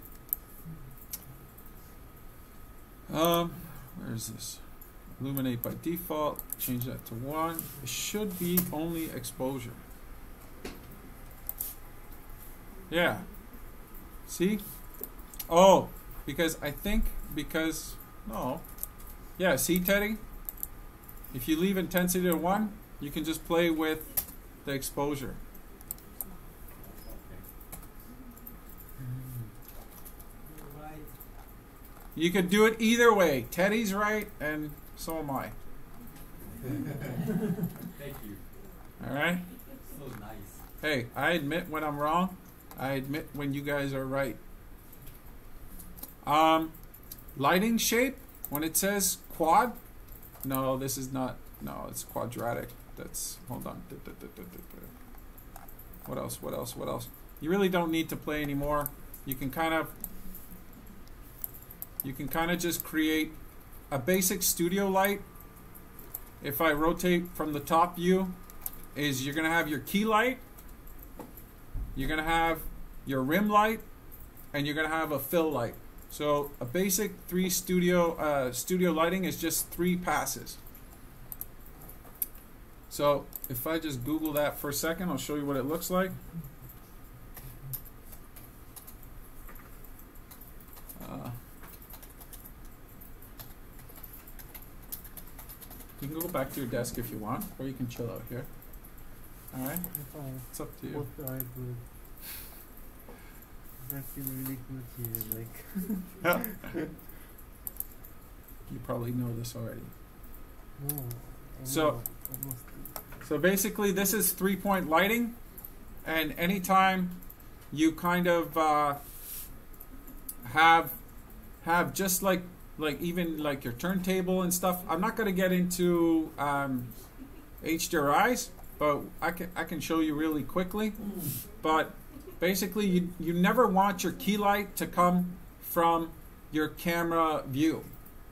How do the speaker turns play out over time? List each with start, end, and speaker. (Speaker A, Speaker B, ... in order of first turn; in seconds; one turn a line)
Speaker A: 3.1-4.6
Speaker A: 5.2-9.8
Speaker A: 12.9-13.3
Speaker A: 14.3-14.6
Speaker A: 15.5-18.6
Speaker A: 19.4-20.2
Speaker A: 21.3-25.4
Speaker B: 26.8-27.5
Speaker C: 29.0-29.5
Speaker B: 30.4-31.1
Speaker A: 32.2-35.5
Speaker B: 37.8-38.4
Speaker A: 39.0-39.5
Speaker B: 39.9-40.6
Speaker A: 40.8-44.4
Speaker A: 46.2-46.7
Speaker A: 47.4-49.8
Speaker A: 50.4-54.9
Speaker A: 56.1-59.9
Speaker A: 62.0-63.4
Speaker A: 63.9-65.2
Speaker A: 66.4-68.4
Speaker A: 69.0-70.4
Speaker A: 72.0-73.8
Speaker A: 74.5-80.6
Speaker A: 82.9-86.2
Speaker A: 91.0-91.3
Speaker A: 96.0-98.5
Speaker A: 99.5-99.9
Speaker C: 99.9-101.8
Speaker A: 100.5-101.0
Speaker C: 103.8-106.9
Speaker A: 108.7-109.9
Speaker C: 110.8-112.9
Speaker A: 111.7-112.0
Speaker A: 113.2-115.4
Speaker A: 116.0-119.0
Speaker A: 120.4-121.0
Speaker A: 121.6-126.9
Speaker A: 127.6-131.0
Speaker A: 131.6-137.9